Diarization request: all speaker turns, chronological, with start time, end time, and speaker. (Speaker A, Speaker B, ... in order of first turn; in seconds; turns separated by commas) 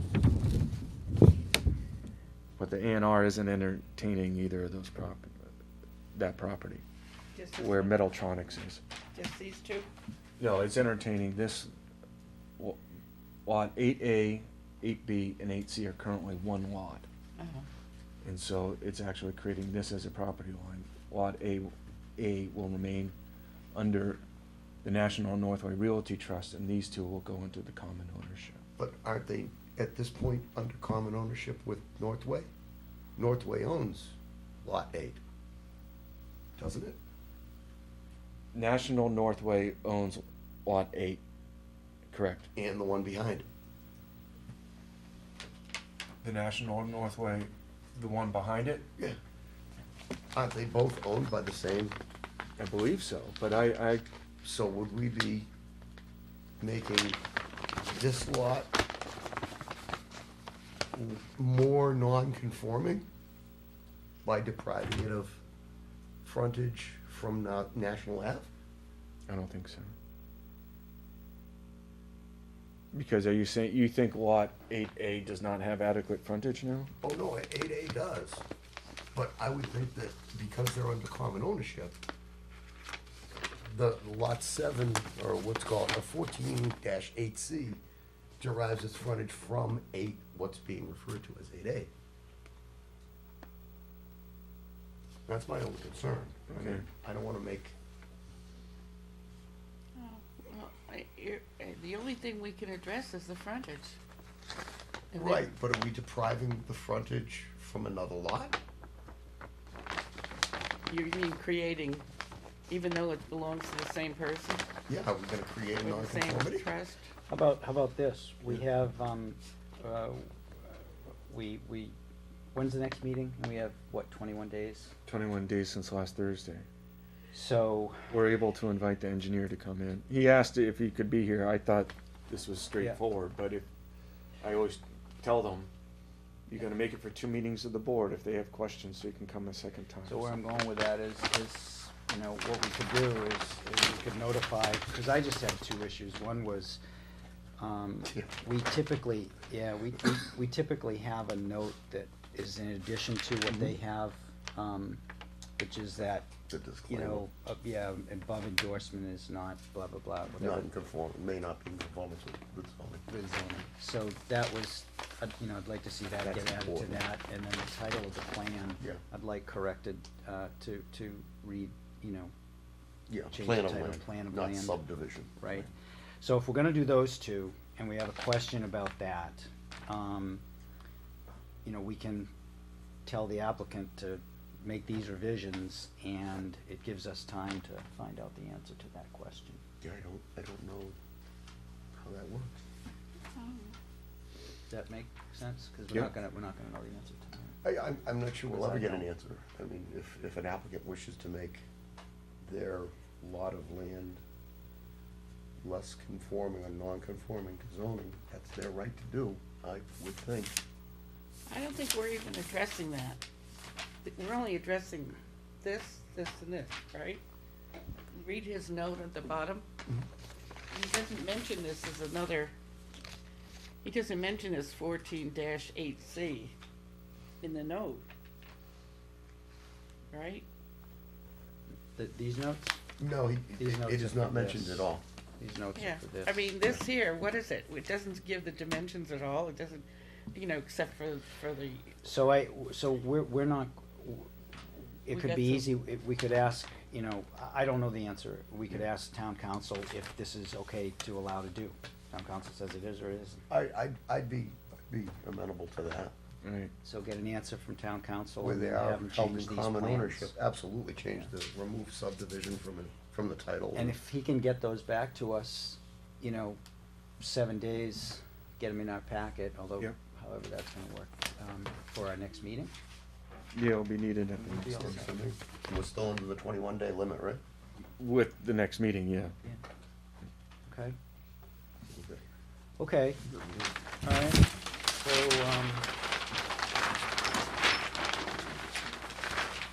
Speaker A: 2.6-5.4, Speaker A: 6.1-6.8, Speaker B: 7.3-8.0, Speaker A: 7.6-8.8, Speaker B: 9.1-9.9, Speaker A: 10.4-11.7, Speaker A: 13.4-17.1, Speaker B: 17.4-17.7, Speaker A: 18.2-23.1, Speaker A: 23.7-24.2, Speaker A: 24.8-28.6, Speaker C: 28.8-32.5, Speaker C: 33.2-35.2, Speaker C: 36.6-37.0, Speaker A: 38.5-41.2, Speaker A: 42.1-42.5, Speaker C: 42.5-43.5, Speaker A: 46.2-48.9, Speaker C: 50.3-52.0, Speaker A: 52.6-54.1, Speaker C: 54.4-55.5, Speaker C: 56.6-57.2, Speaker C: 57.9-58.8, Speaker C: 60.9-63.1, Speaker C: 64.2-65.4, Speaker C: 66.2-68.5, Speaker A: 69.3-69.9, Speaker A: 72.9-76.9, Speaker C: 77.0-78.4, Speaker C: 79.1-82.0, Speaker C: 83.7-87.8, Speaker C: 88.4-91.9, Speaker C: 95.3-97.7, Speaker A: 96.5-96.8, Speaker B: 100.0-104.0, Speaker B: 105.1-105.5, Speaker C: 105.1-108.6, Speaker B: 110.9-112.1, Speaker B: 112.7-114.7, Speaker C: 114.9-116.7, Speaker B: 115.8-117.1, Speaker D: 117.3-120.2, Speaker D: 121.3-121.9, Speaker D: 122.5-124.9, Speaker A: 125.0-126.7, Speaker D: 127.3-128.1, Speaker A: 128.1-133.6, Speaker A: 134.4-135.7, Speaker A: 136.5-140.3, Speaker D: 140.1-146.8, Speaker D: 147.6-155.0, Speaker D: 155.6-156.3, Speaker C: 156.5-157.2, Speaker D: 156.9-160.7, Speaker C: 160.4-163.0, Speaker D: 163.1-172.3, Speaker C: 166.2-167.0, Speaker C: 173.1-175.4, Speaker D: 173.3-174.8, Speaker D: 175.4-175.7, Speaker D: 176.2-180.4, Speaker D: 181.6-182.3, Speaker D: 183.0-189.6, Speaker C: 189.8-191.0, Speaker C: 191.9-192.6, Speaker B: 193.3-193.7, Speaker D: 194.7-197.6, Speaker C: 197.6-201.6, Speaker D: 198.5-199.1, Speaker C: 202.4-204.2, Speaker C: 205.6-210.6, Speaker B: 211.5-213.2, Speaker B: 214.0-217.2, Speaker B: 218.1-219.7, Speaker B: 220.7-222.5, Speaker B: 223.8-226.5, Speaker B: 227.4-228.1, Speaker B: 230.1-230.5, Speaker D: 231.9-232.8, Speaker C: 233.0-235.0, Speaker D: 233.6-236.4, Speaker B: 235.8-242.0, Speaker D: 242.0-244.3, Speaker D: 244.8-253.4, Speaker B: 245.1-245.7, Speaker C: 253.5-256.1, Speaker A: 256.4-256.7, Speaker D: 256.8-260.3, Speaker C: 258.4-263.9, Speaker D: 263.7-266.6, Speaker D: 267.2-272.7, Speaker A: 273.5-275.0, Speaker D: 274.4-275.2, Speaker C: 274.8-277.4, Speaker A: 278.0-279.3, Speaker D: 280.6-281.0, Speaker C: 281.9-282.2, Speaker D: 282.8-283.2, Speaker C: 283.3-283.7, Speaker D: 284.0-285.9